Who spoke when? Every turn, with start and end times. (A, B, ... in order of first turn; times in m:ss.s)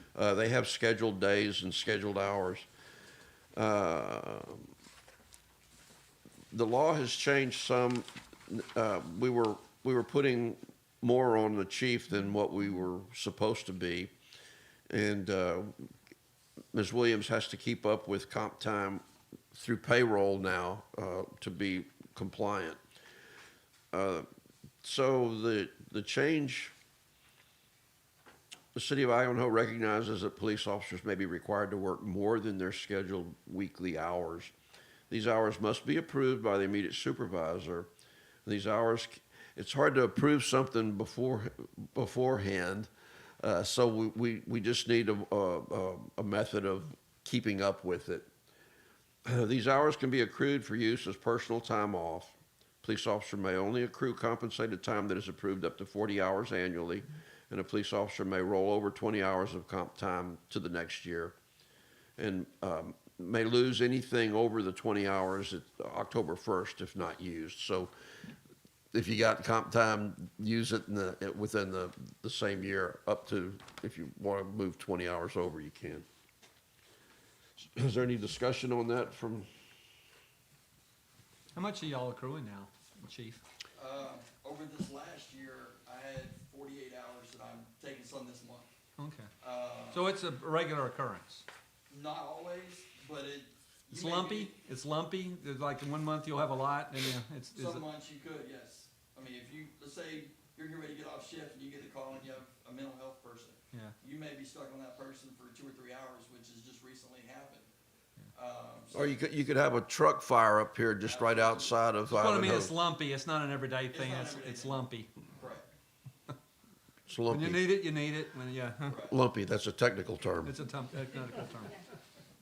0:00.1-0:02.6 A
0:03.5-0:04.7 A
0:06.5-0:14.1 A
0:14.9-0:15.7 A
0:16.7-0:19.0 A
0:19.5-0:22.8 A
0:23.9-0:24.3 A
0:24.8-0:26.7 A
0:28.7-0:34.5 A
0:35.1-0:37.9 A
0:38.4-0:42.9 A
0:43.4-0:48.3 A
0:49.2-1:01.3 A
1:02.2-1:07.9 A
1:08.9-1:16.0 A
1:17.6-1:19.5 A
1:21.5-1:23.4 B
1:23.7-1:28.7 C
1:29.0-1:29.3 B
1:29.4-1:30.1 C
1:29.9-1:31.4 B
1:31.9-1:34.5 C
1:33.9-1:37.8 B
1:37.6-1:47.7 C
1:48.3-1:49.2 C
1:48.9-1:52.8 A
1:51.0-1:51.8 C
1:52.1-1:55.1 B
1:53.9-1:54.8 C
1:55.4-1:55.6 C
1:57.0-1:57.7 A
1:57.3-1:59.0 B
1:58.8-1:59.2 C
1:59.1-2:00.6 A
2:00.4-2:01.8 B